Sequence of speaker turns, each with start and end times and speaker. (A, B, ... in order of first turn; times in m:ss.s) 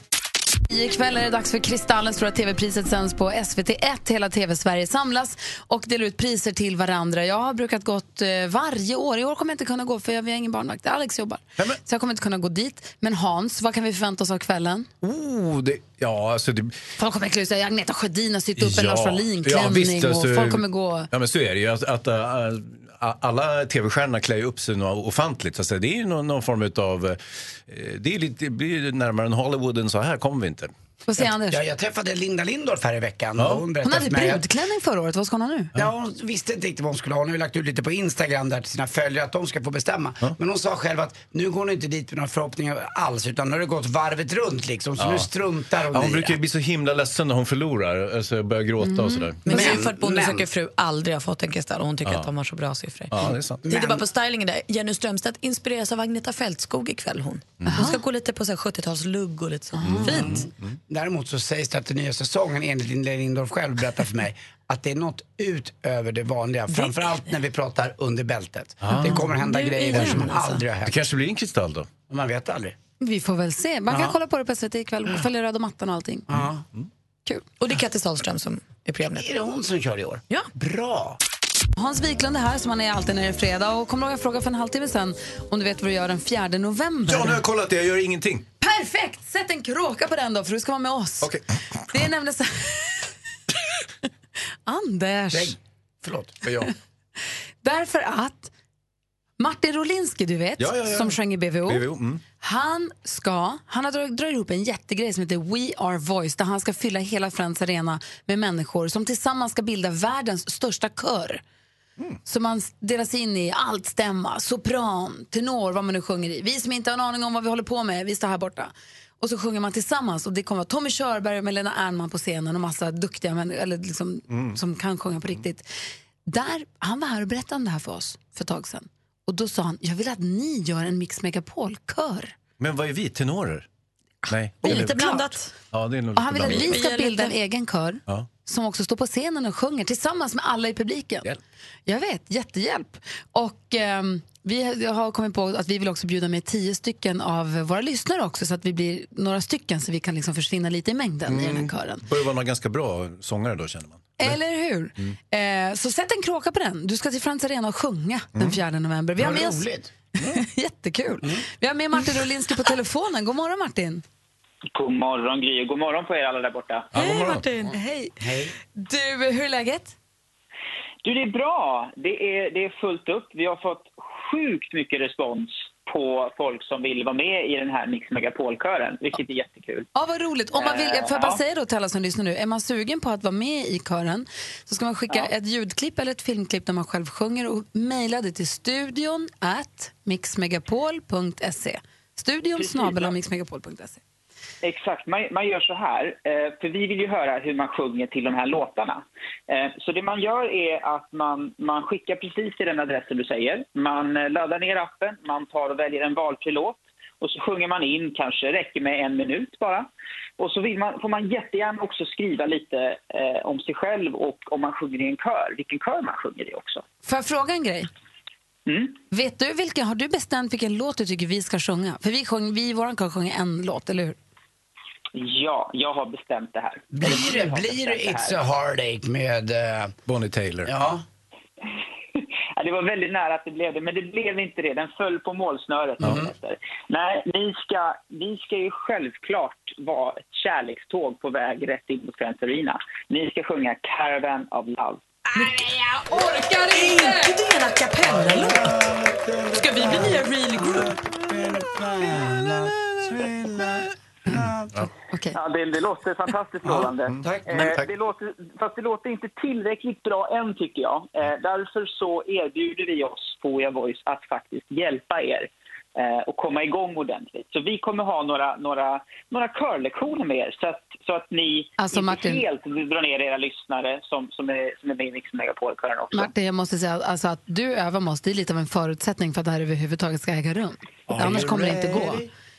0:00.7-0:14.9 A
0:15.0-0:16.8 B
0:17.0-0:21.1 A
0:18.6-0:30.7 B
0:31.0-0:31.6 A
0:31.2-0:34.4 C
0:33.4-0:33.6 B
0:33.8-0:35.7 A
0:35.7-0:46.4 C
0:45.0-0:45.3 B
0:45.9-0:49.4 B
0:48.8-0:49.7 A
0:49.4-1:00.4 D
0:49.5-0:50.5 C
0:53.1-0:53.6 B
0:53.6-0:54.0 C
0:57.6-0:57.9 B
0:57.7-0:58.0 A
0:59.8-1:00.2 A
0:59.8-1:00.8 B
1:00.0-1:11.0 C
1:06.7-1:07.1 D
1:08.8-1:09.2 B
1:09.0-1:10.6 D
1:10.8-1:11.9 B
1:12.1-1:12.7 C
1:13.0-1:16.3 A
1:13.9-1:14.1 C
1:16.3-1:16.6 C
1:17.6-1:19.3 D
1:19.1-1:21.2 C
1:21.8-1:27.4 A
1:27.0-1:28.4 B
1:28.6-1:31.3 A
1:31.9-1:33.1 A
1:34.6-1:35.6 A
1:35.3-1:36.4 C
1:36.4-1:36.7 B
1:37.6-1:38.5 A
1:39.4-1:41.9 A
1:40.6-1:42.2 B
1:42.4-1:51.4 A
1:52.2-2:05.7 A
2:04.3-2:04.6 B
2:06.2-2:12.3 A
2:12.6-2:13.6 B
2:14.3-2:15.0 B
2:14.6-2:15.5 D
2:14.6-2:15.3 A
2:15.7-2:16.8 B
2:16.2-2:21.3 A
2:16.4-2:17.4 D
2:21.8-2:32.0 A
2:31.2-2:34.4 B
2:34.2-2:39.6 A
2:39.2-2:39.9 C
2:40.2-2:44.0 A
2:44.7-2:46.9 E
2:46.9-2:47.5 B
2:46.9-2:47.8 D
2:47.7-2:48.1 A
2:48.2-2:48.5 C
2:48.7-2:49.9 A
2:51.0-2:59.9 E
2:59.9-3:14.0 A
3:00.5-3:01.4 E
3:12.6-3:13.1 E
3:14.6-3:29.9 E
3:30.4-3:36.8 E
3:37.0-3:37.9 A
3:38.7-3:38.9 E
3:39.1-3:44.2 A
3:45.1-3:48.4 E
3:46.9-3:49.9 C
3:50.1-3:50.7 B
3:50.6-3:51.0 C
3:52.2-4:05.0 E
3:56.0-3:56.3 C
4:05.3-4:06.0 D
4:06.0-4:07.3 A
4:06.7-4:08.7 D
4:08.0-4:14.8 C
4:09.6-4:10.9 D
4:15.1-4:15.4 A
4:15.3-4:36.3 E
4:16.6-4:17.8 C
4:17.1-4:17.9 B
4:31.8-4:32.4 A
4:36.1-4:42.2 A
4:41.1-4:42.3 C